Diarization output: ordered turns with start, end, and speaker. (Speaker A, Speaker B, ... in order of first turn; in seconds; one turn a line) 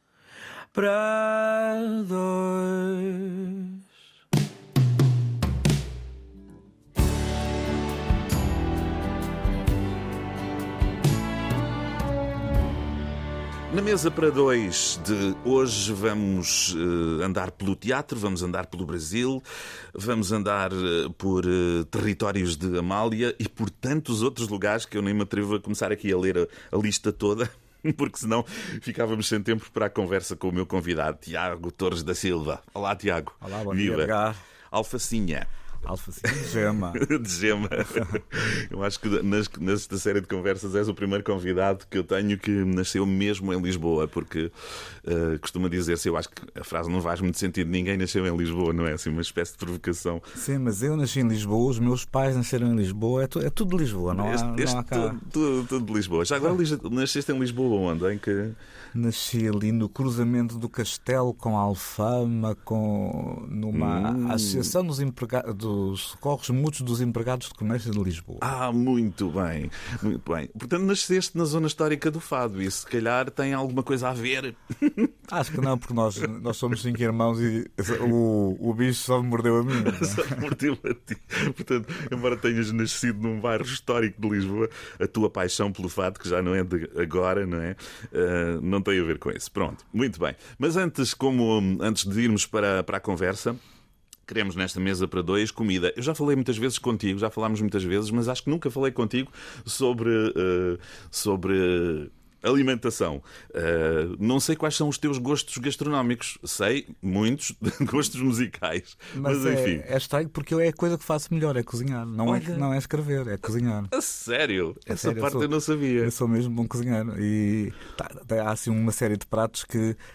Speaker A: 0.7-3.8
Speaker B: 13.7-34.1
Speaker C: 33.4-34.4
Speaker B: 34.7-35.5
Speaker C: 35.8-37.0
Speaker B: 36.2-50.2
Speaker C: 50.3-55.2
Speaker B: 54.1-58.6
Speaker C: 58.9-68.5
Speaker B: 63.7-64.7
Speaker B: 68.4-75.1
Speaker C: 75.3-80.5
Speaker B: 79.7-93.6
Speaker B: 94.3-109.9
Speaker C: 109.1-113.9
Speaker B: 112.2-112.7
Speaker B: 113.9-116.1
Speaker C: 114.9-120.0